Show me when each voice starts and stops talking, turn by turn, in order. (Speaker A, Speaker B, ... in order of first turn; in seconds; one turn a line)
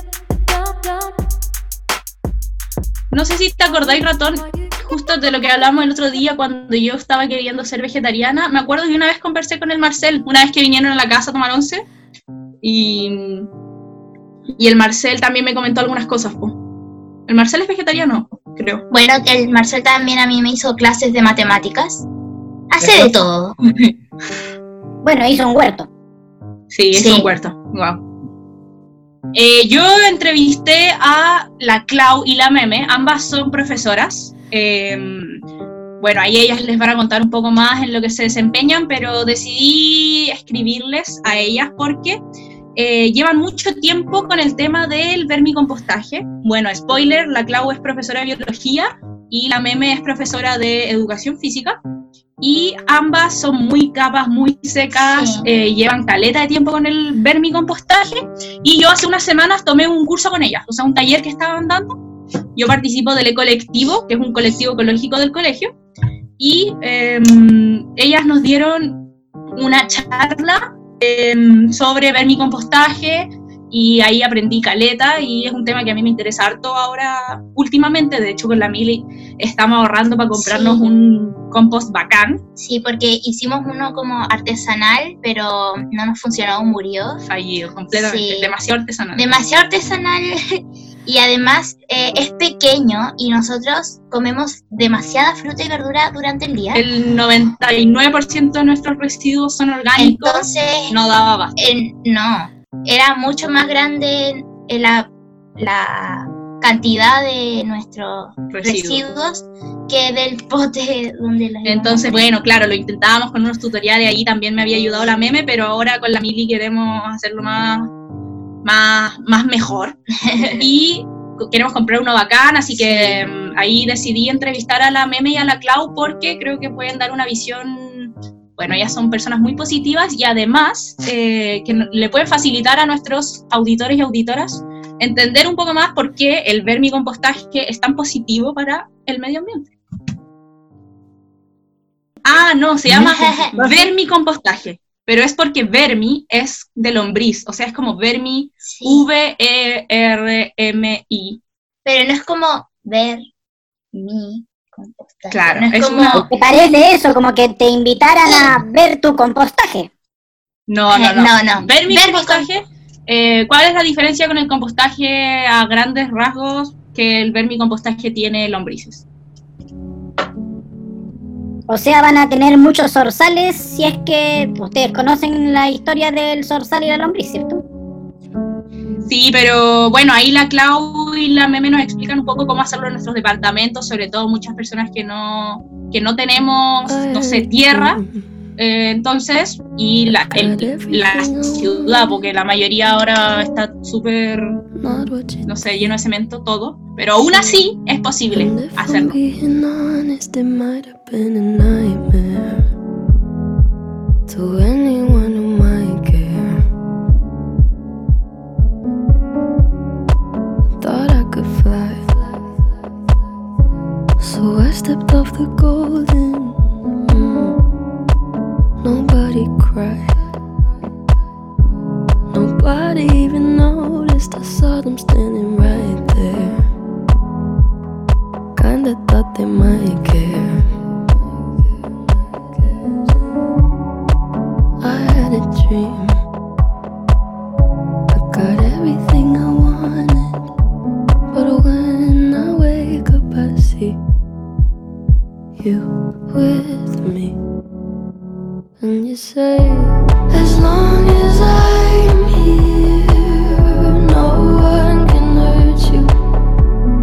Speaker A: 3.1-11.8
Speaker A: 12.6-13.5
Speaker A: 14.6-16.6
Speaker A: 17.3-18.8
Speaker B: 18.9-22.0
Speaker B: 22.7-23.9
Speaker A: 22.8-23.1
Speaker C: 25.0-25.9
Speaker A: 26.7-28.0
Speaker B: 26.9-27.3
Speaker A: 29.3-35.4
Speaker A: 36.0-42.2
Speaker A: 42.8-51.8
Speaker A: 52.4-62.0
Speaker B: 55.0-55.5
Speaker A: 62.5-65.7
Speaker A: 66.4-82.4
Speaker B: 80.3-80.8
Speaker B: 82.6-87.2
Speaker A: 87.2-89.3
Speaker B: 87.9-88.5
Speaker B: 89.2-96.8
Speaker A: 96.7-101.5
Speaker B: 100.0-100.9
Speaker B: 101.6-112.2
Speaker A: 108.5-109.0
Speaker A: 111.6-117.9
Speaker A: 118.6-139.7
Speaker B: 120.2-120.6
Speaker B: 122.7-123.2
Speaker A: 142.2-151.4
Speaker B: 142.9-143.9
Speaker B: 148.7-149.0
Speaker B: 151.8-153.3
Speaker B: 153.9-156.3
Speaker A: 155.3-156.3
Speaker C: 156.1-159.9
Speaker A: 160.7-169.0
Speaker B: 160.9-162.5
Speaker C: 171.7-177.6
Speaker A: 179.1-188.0
Speaker D: 186.9-188.3
Speaker A: 188.6-194.6
Speaker D: 190.2-192.2
Speaker D: 194.7-195.7
Speaker A: 195.4-199.2
Speaker D: 197.2-197.5
Speaker D: 198.3-202.7
Speaker D: 204.3-206.7
Speaker D: 210.8-212.3
Speaker D: 214.2-217.6
Speaker D: 218.8-220.2
Speaker D: 222.3-226.7
Speaker D: 228.6-230.7
Speaker D: 231.6-233.1
Speaker D: 234.8-236.2
Speaker D: 238.1-240.4
Speaker D: 241.3-244.0
Speaker D: 245.6-247.4
Speaker D: 248.8-256.1